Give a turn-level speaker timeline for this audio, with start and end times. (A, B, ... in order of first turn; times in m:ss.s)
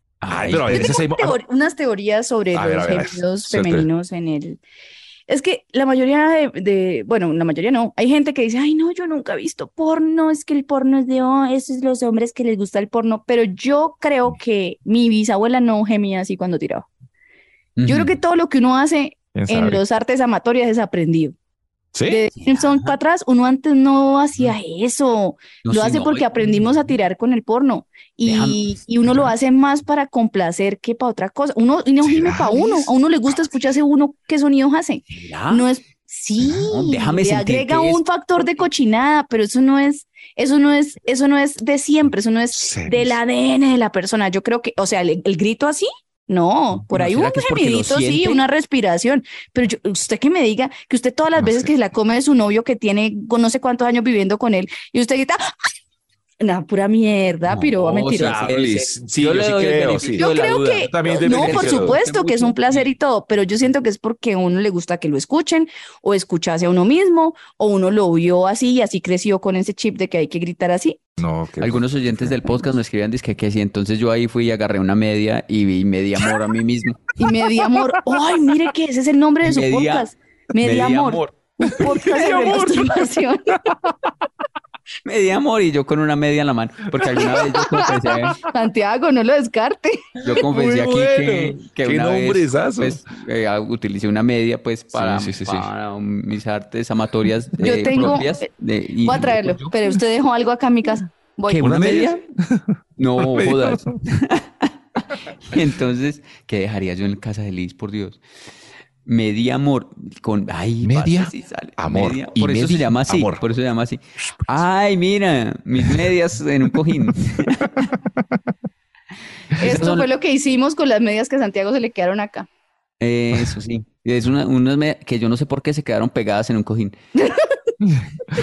0:00.2-0:00.9 A
0:00.3-0:01.4 B
0:00.6-0:04.6 C
0:02.5-0:03.9 B
0:05.3-0:16.9 C
0:17.8-0:18.2 A
0:17.9-0:21.3 C
0:19.3-0:19.8 B
0:21.9-0:22.2 B
0:22.1-0:55.6 C
0:22.4-0:23.0 A
0:25.6-0:26.6 A
0:28.2-0:29.3 A
0:32.0-0:32.9 B
0:35.1-0:35.7 A
0:36.5-0:38.0 A
0:42.6-0:43.2 B
0:46.9-0:48.4 A
0:51.4-0:51.7 B
0:56.4-0:58.4 C
0:57.5-1:02.9 A
0:58.1-1:00.3 B
1:00.2-1:11.0 C
1:00.8-1:02.0 B
1:11.2-1:12.5 B
1:11.6-1:17.1 A
1:17.2-1:23.7 C
1:19.4-1:22.5 A
1:21.9-1:23.0 B
1:23.7-1:24.0 B
1:25.0-1:28.4 A
1:27.0-1:27.3 B
1:27.2-1:27.7 C
1:28.4-1:30.2 C
1:30.2-1:39.7 A
1:30.3-1:33.0 B
1:34.9-1:35.7 B
1:37.6-1:38.5 C
1:39.0-1:42.0 C
1:41.5-1:42.2 A
1:41.6-1:44.0 B
1:43.0-1:44.7 A
1:45.4-1:48.2 A
1:49.0-1:58.0 A
1:50.8-1:53.5 B
1:59.6-2:00.1 A
1:59.6-2:02.5 C
2:03.0-2:07.0 A
2:07.2-2:07.6 C
2:07.8-2:08.1 B